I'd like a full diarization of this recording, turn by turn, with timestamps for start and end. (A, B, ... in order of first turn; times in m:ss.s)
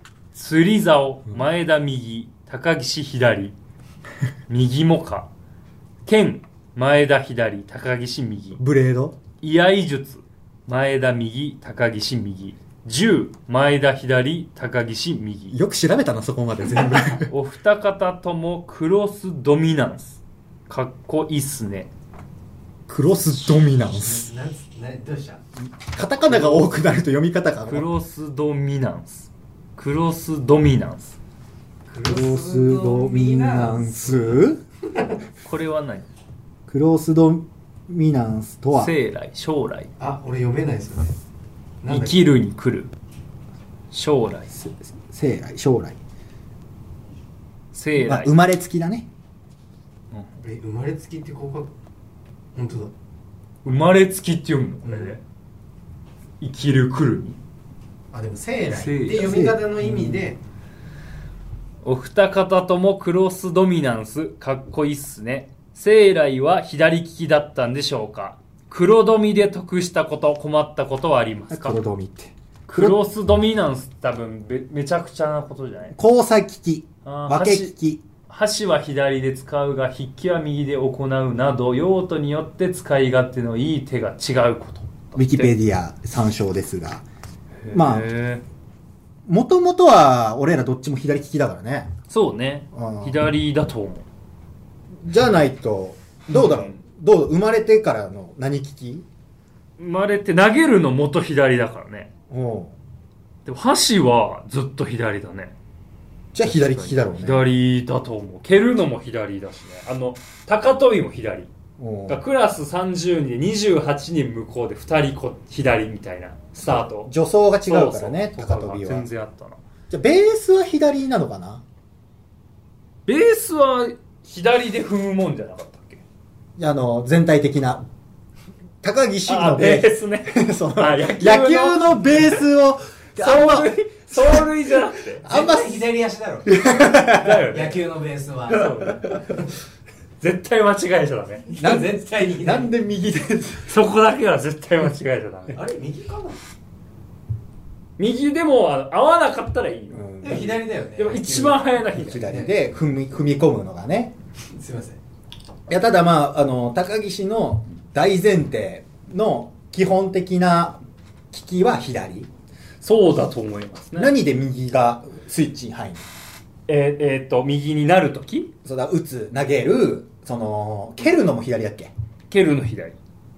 0:00.3-0:03.6 A
0:04.5-0:05.3 A
0:06.0-0:08.6 A
0:08.6-0:09.2 B
0:09.4-0:15.6 A
0:15.5-0:17.3 B
0:17.2-0:21.9 A
0:22.9-0:24.3 B
0:24.0-0:25.4 C
0:25.9-0:27.9 B
0:26.3-0:26.8 A
0:27.6-0:31.2 A
0:31.9-0:34.0 C
0:32.0-0:34.6 B
0:35.4-0:36.0 A
0:36.7-0:38.9 B
0:38.7-0:39.9 A
0:40.0-0:41.1 C
0:41.8-0:42.2 C
0:41.9-0:42.9 A
0:43.9-0:44.5 A
0:44.5-0:46.0 B
0:47.7-0:48.3 A
0:48.0-0:49.1 B
0:50.4-0:51.7 C
0:52.5-0:52.9 C
0:53.6-0:55.2 A
0:54.8-0:55.2 C
0:56.4-0:57.4 A
0:58.1-1:00.4 C
0:58.7-0:59.5 A
0:59.2-1:00.2 B
1:01.8-1:11.8 A
1:11.5-1:13.0 B
1:12.7-1:16.0 A
1:15.9-1:18.0 B
1:17.0-1:17.7 A
1:18.3-1:25.5 A
1:25.2-1:27.0 B
1:27.6-1:28.4 A
1:27.7-1:28.1 B
1:29.2-1:31.9 B
1:32.1-1:34.0 A
1:32.7-1:33.2 B
1:35.0-1:39.0 B
1:36.3-1:36.8 A
1:39.8-1:42.1 A
1:42.3-1:42.7 B
1:43.4-1:45.5 A
1:46.3-1:47.5 B
1:46.4-1:51.5 A
1:51.8-1:52.2 B
1:52.1-1:57.1 A
1:56.7-1:59.1 B
1:57.6-1:59.6 A
1:59.9-2:01.6 B
2:03.1-2:06.0 A
2:06.6-2:07.8 B
2:08.8-2:14.5 B
2:09.2-2:12.4 A
2:13.2-2:15.2 A
2:15.2-2:15.8 B
2:15.2-2:16.5 C
2:16.5-2:17.4 B
2:16.9-2:17.8 A
2:17.3-2:18.9 C
2:18.5-2:19.2 A
2:20.2-2:21.5 A
2:21.5-2:22.7 C
2:21.6-2:23.7 B
2:23.6-2:25.6 A
2:25.5-2:26.4 C
2:28.0-2:30.2 A
2:29.9-2:30.6 B
2:30.2-2:32.5 C
2:31.0-2:32.3 A
2:31.8-2:34.1 B
2:34.5-2:35.0 C
2:35.7-2:42.3 B
2:42.8-2:44.1 A
2:43.9-2:46.0 B
2:46.7-2:48.5 A
2:48.6-2:51.9 B
2:52.3-2:53.0 A